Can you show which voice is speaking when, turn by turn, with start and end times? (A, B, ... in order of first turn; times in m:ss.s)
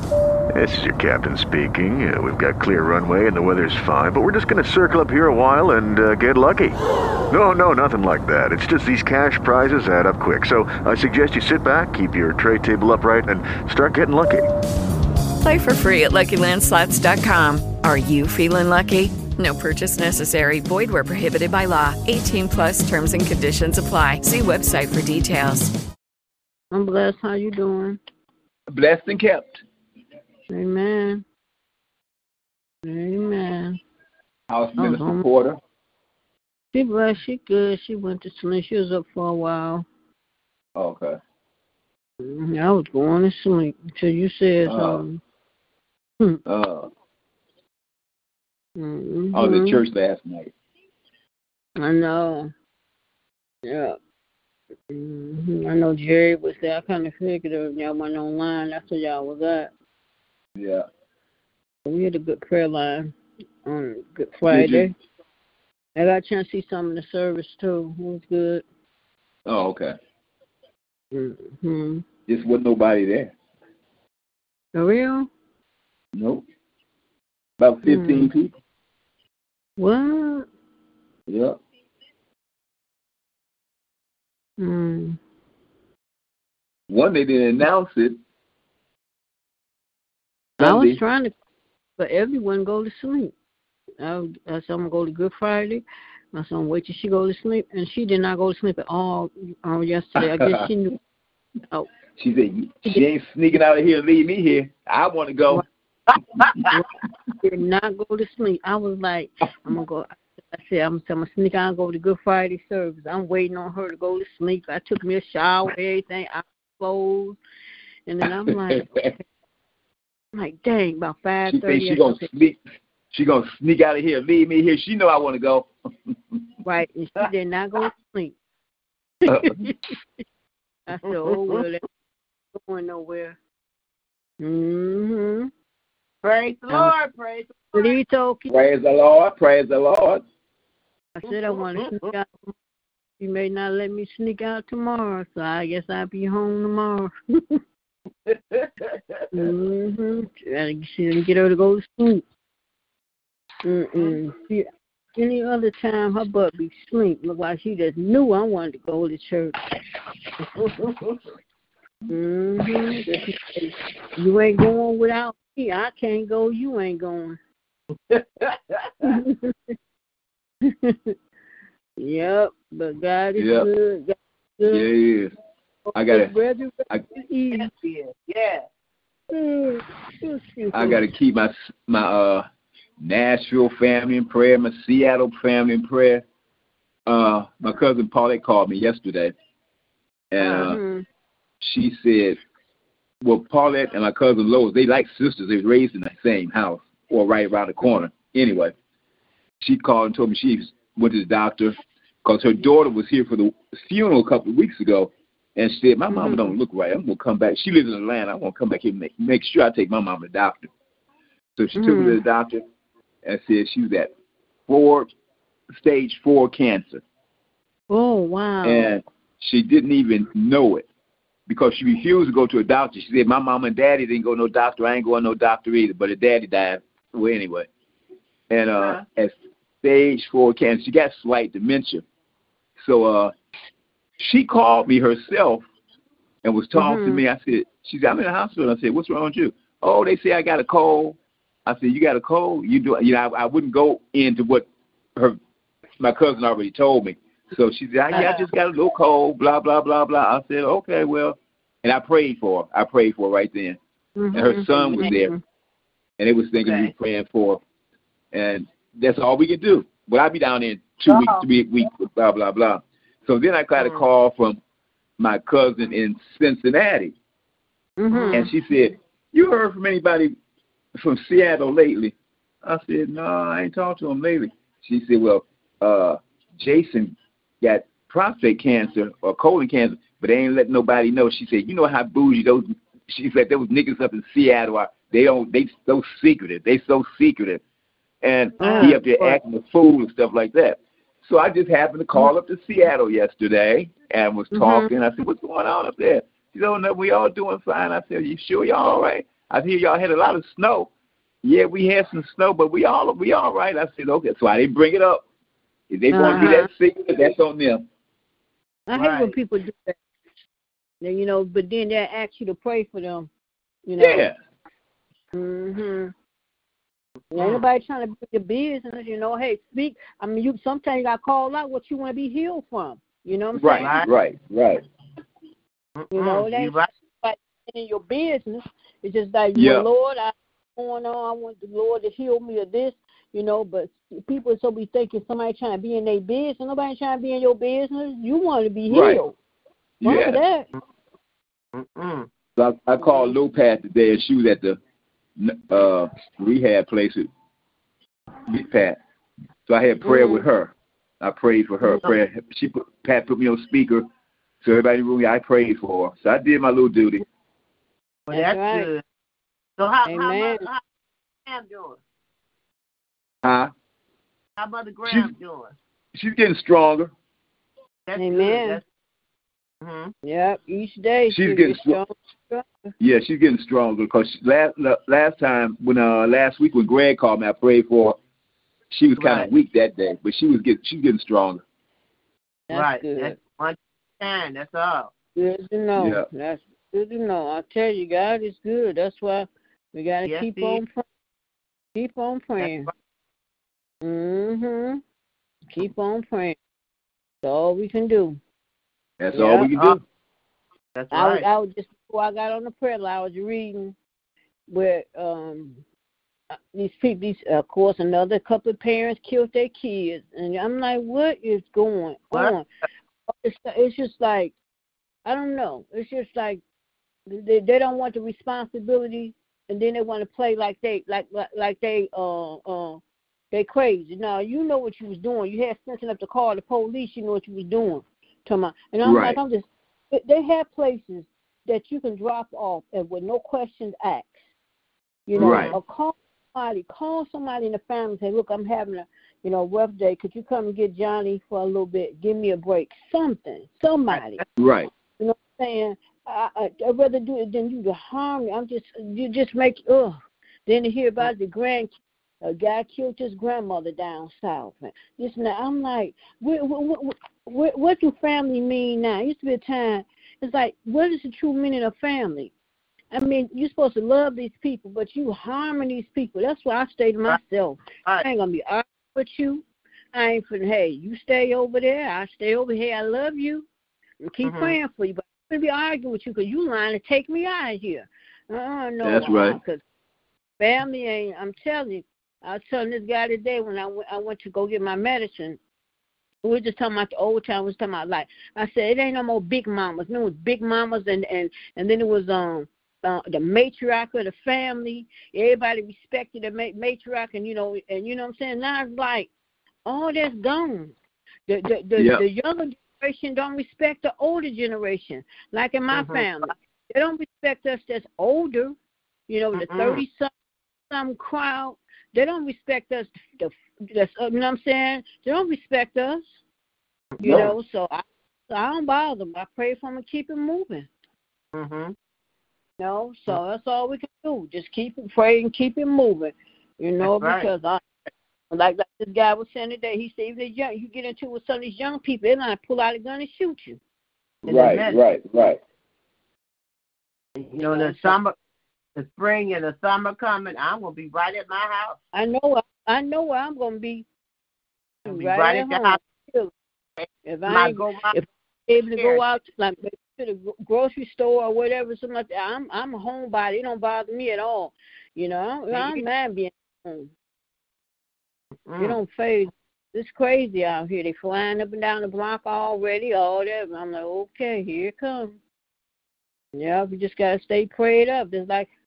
0:00.5-0:06.8 A
0:07.3-0:14.4 A
0:15.4-0:25.7 B
0:26.7-0:28.0 C
0:28.7-0:29.6 D
0:30.5-0:31.2 C
0:32.8-0:33.8 C
0:34.5-0:35.6 D
0:34.8-0:35.2 C
0:36.7-0:39.8 C
0:40.8-0:41.2 D
0:42.2-0:45.2 C
0:44.7-0:45.0 D
0:46.4-0:46.9 D
0:48.8-0:49.8 C
0:49.3-0:50.5 D
0:51.8-0:52.5 C
0:53.6-0:54.0 C
0:54.9-0:59.7 C
1:00.6-1:00.8 D
1:01.8-1:03.1 C
1:03.6-1:04.9 C
1:04.5-1:04.9 D
1:06.0-1:08.6 C
1:09.4-1:09.9 D
1:11.1-1:12.0 C
1:12.3-1:13.3 D
1:14.7-1:15.3 C
1:16.1-1:16.4 D
1:17.6-1:18.5 D
1:17.8-1:18.3 C
1:19.8-1:20.5 C
1:21.3-1:21.6 D
1:24.6-1:25.2 C
1:26.9-1:28.2 D
1:30.6-1:31.0 D
1:30.6-1:31.3 C
1:32.0-1:33.3 C
1:34.0-1:40.9 C
1:40.2-1:40.7 D
1:42.2-1:45.6 D
1:47.4-1:57.4 C
1:58.1-1:59.2 C
1:58.5-1:59.1 D
2:00.3-2:02.3 C
2:01.5-2:02.6 D
2:03.1-2:06.2 D
2:06.6-2:08.3 C
2:09.3-2:09.6 D
2:09.3-2:09.9 C
2:10.9-2:11.8 C
2:12.5-2:13.4 C
2:14.4-2:15.5 C
2:16.2-2:18.0 E
2:17.7-2:18.6 C
2:18.5-2:20.2 D
2:21.2-2:22.5 C
2:23.2-2:27.6 C
2:29.3-2:32.2 C
2:33.6-2:39.6 C
2:42.1-2:47.4 C
2:49.0-2:49.7 C
2:50.6-2:51.1 C
2:52.0-2:54.9 C
2:53.4-2:53.7 D
2:54.7-2:55.3 D
2:55.9-2:57.7 C
2:55.9-2:56.3 D
2:57.5-2:58.6 E
2:59.3-3:01.0 C
3:00.7-3:02.4 D
3:03.0-3:06.2 D
3:07.1-3:09.3 D
3:10.3-3:10.8 D
3:10.4-3:11.0 C
3:11.6-3:12.4 D
3:13.2-3:18.7 D
3:19.6-3:30.7 D
3:26.1-3:26.5 C
3:31.6-3:32.6 D
3:31.8-3:32.2 C
3:33.2-3:34.1 D
3:34.7-3:35.1 D
3:35.7-3:37.0 D
3:37.9-3:38.9 C
3:38.6-3:40.8 D
3:41.5-3:47.7 D
3:48.5-3:52.0 D
3:52.8-3:53.3 D
3:54.2-3:55.6 D
3:56.4-4:05.4 D
3:56.8-3:57.2 C
4:06.0-4:13.8 D
4:14.2-4:15.4 C
4:14.3-4:15.3 D
4:16.2-4:17.6 D
4:16.6-4:16.9 E
4:18.3-4:24.6 D
4:21.1-4:21.4 C
4:25.2-4:27.1 D
4:28.0-4:28.5 C
4:28.1-4:28.4 E
4:28.3-4:30.3 D
4:31.0-4:47.6 D
4:48.2-5:00.9 D
4:48.6-4:49.3 C
4:48.6-4:49.0 E
4:54.5-4:54.9 C
5:01.4-5:05.2 D
5:05.9-5:07.8 D
5:06.1-5:06.7 C
5:08.9-5:10.0 C
5:08.9-5:09.3 E
5:11.0-5:13.3 C
5:13.8-5:14.3 C
5:14.0-5:14.3 D
5:15.3-5:16.1 C
5:17.3-5:24.0 C
5:17.4-5:17.6 E
5:23.5-5:24.8 D
5:23.8-5:24.1 E
5:26.0-5:26.9 E
5:26.1-5:39.3 C
5:29.5-5:29.9 D
5:38.9-5:39.2 D
5:40.0-5:40.4 D
5:40.0-5:40.7 C
5:41.7-5:42.3 E
5:42.6-5:44.8 D
5:45.4-5:47.3 D
5:48.5-5:49.0 D
5:49.7-5:54.1 D
5:50.0-5:50.4 C
5:54.6-5:57.2 D
5:58.3-5:59.0 E
5:58.3-5:58.9 C
5:59.8-6:00.8 E
6:00.0-6:00.7 C
6:01.4-6:02.0 E
6:03.4-6:03.7 D
6:04.6-6:05.7 E
6:05.0-6:05.3 D
6:06.1-6:07.1 D
6:08.1-6:08.8 E
6:08.2-6:08.8 C
6:09.8-6:10.1 E
6:10.2-6:12.9 C
6:11.3-6:12.0 D
6:13.0-6:18.2 D
6:18.9-6:21.6 D
6:19.2-6:19.5 E
6:22.7-6:23.3 C
6:22.7-6:25.1 E
6:25.4-6:31.0 C
6:26.0-6:26.2 D
6:30.2-6:30.8 E
6:32.0-6:32.9 C
6:32.6-6:32.9 E
6:34.0-6:35.0 C
6:35.7-6:36.6 C
6:37.4-6:38.4 C
6:39.2-6:40.0 D
6:39.3-6:39.7 C
6:39.6-6:40.0 E
6:41.0-6:41.4 E
6:41.1-6:43.9 C
6:44.7-6:45.8 C
6:46.5-6:52.6 C
6:53.3-6:54.5 C
6:55.2-6:56.6 C
6:57.3-7:03.0 C
7:03.5-7:14.4 C
7:09.0-7:09.4 D
7:15.3-7:24.4 C
7:15.3-7:15.8 E
7:15.4-7:15.8 D
7:24.1-7:24.4 E
7:24.6-7:24.9 D
7:25.2-7:42.5 C
7:43.1-7:53.7 C
7:54.2-7:59.8 C
7:54.4-7:54.8 E
7:59.0-7:59.6 D
8:00.6-8:05.6 C
8:06.4-8:19.3 C
8:19.8-8:20.9 C
8:21.5-8:28.7 C
8:22.0-8:22.2 D
8:25.9-8:26.2 E
8:29.3-8:30.3 C
8:29.6-8:30.0 E
8:30.9-8:36.2 C
8:37.2-8:37.5 E
8:37.2-8:40.9 C
8:41.5-8:41.9 E
8:42.8-8:47.8 C
8:47.0-8:47.5 E
8:48.5-8:53.8 C
8:54.5-8:55.0 E
8:54.5-8:55.6 D
8:57.4-8:58.4 E
8:57.7-8:58.2 C
8:59.0-9:02.0 E
9:02.1-9:04.0 C
9:05.0-9:06.5 C
9:05.1-9:06.0 E
9:07.0-9:08.2 E
9:07.2-9:17.1 C
9:08.9-9:09.2 E
9:15.7-9:16.0 E
9:18.7-9:19.0 E
9:18.8-9:25.4 C
9:26.5-9:28.7 C